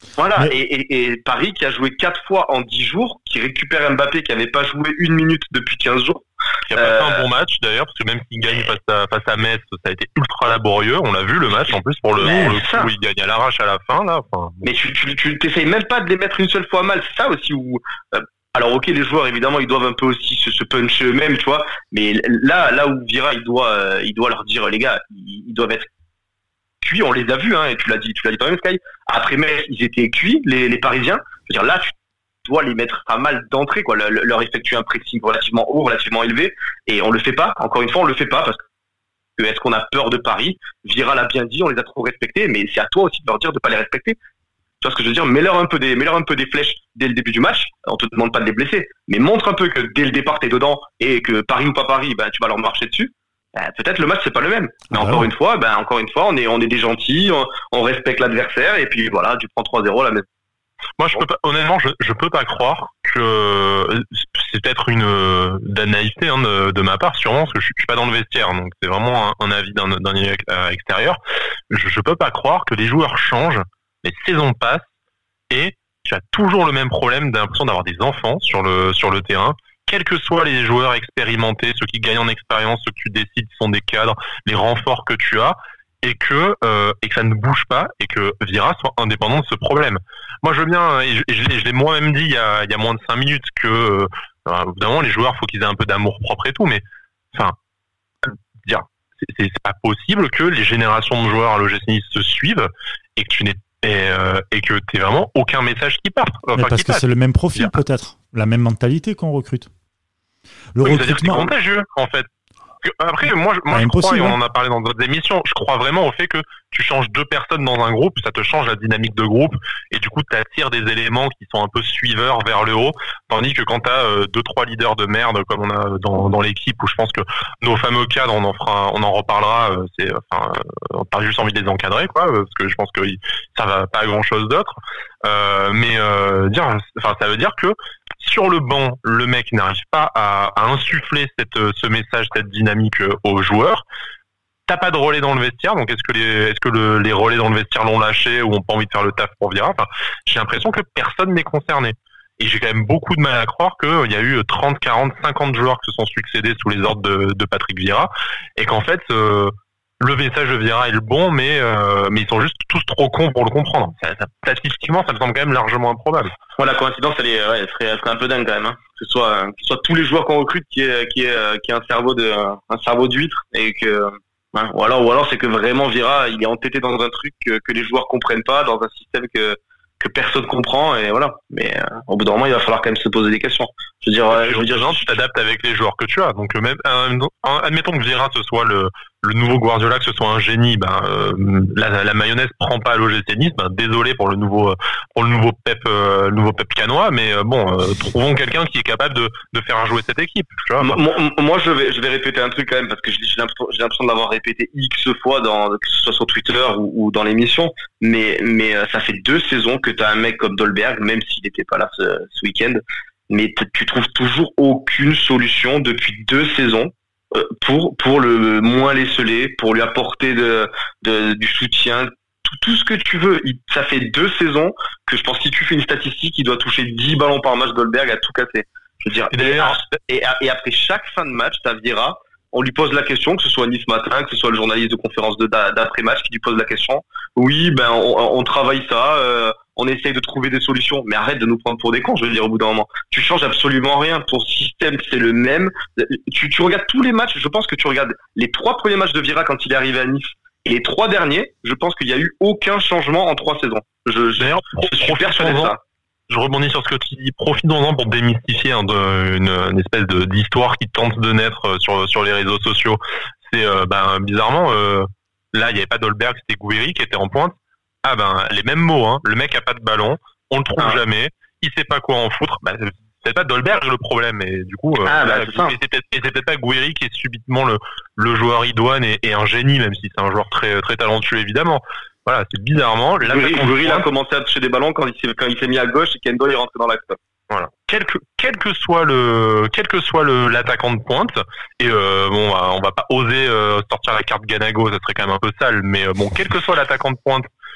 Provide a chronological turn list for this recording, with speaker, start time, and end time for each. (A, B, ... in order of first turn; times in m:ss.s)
0:00.2-0:07.2 A
0:06.7-0:14.7 B
0:12.2-0:12.9 A
0:14.6-0:25.9 A
0:26.8-0:38.6 A
0:39.4-0:44.2 A
0:44.8-1:00.2 A
0:54.9-0:55.3 C
1:01.0-1:11.2 B
1:11.7-1:14.9 B
1:15.5-1:37.6 B
1:38.2-1:47.0 B
1:46.6-1:49.7 C
1:50.8-1:51.5 C
1:50.8-1:52.3 B
1:52.8-2:23.8 B
1:53.7-1:54.4 C
2:24.7-2:46.3 B
2:46.6-3:05.1 A
3:04.3-3:21.0 B
3:20.8-4:15.8 A
3:49.3-3:49.9 B
4:14.4-4:15.8 B
4:16.3-4:44.1 B
4:35.0-4:35.8 A
4:43.2-4:47.2 A
4:47.5-4:57.5 B